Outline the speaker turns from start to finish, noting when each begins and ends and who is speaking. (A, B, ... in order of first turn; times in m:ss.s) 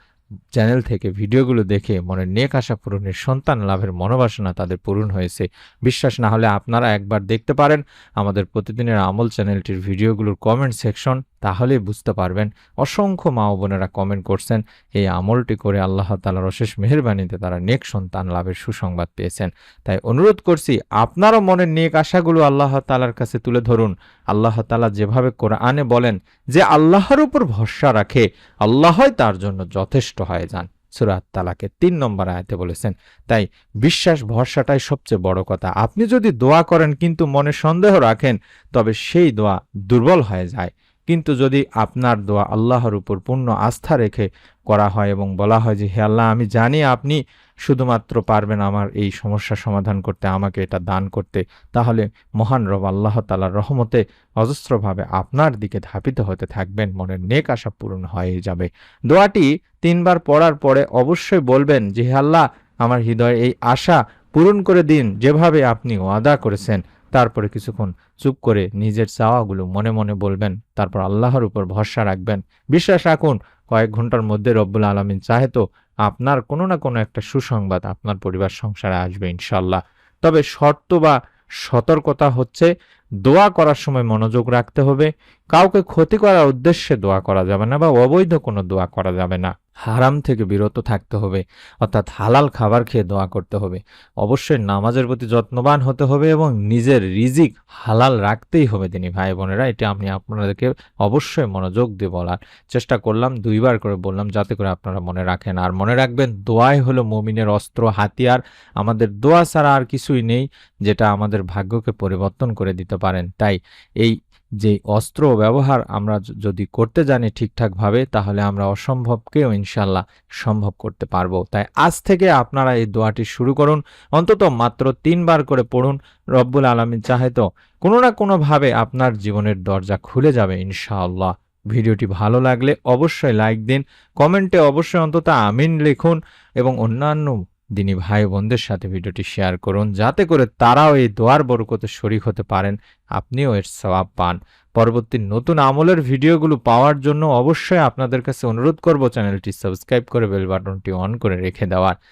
0:00.6-1:22.7 A
1:23.2-2:32.0 A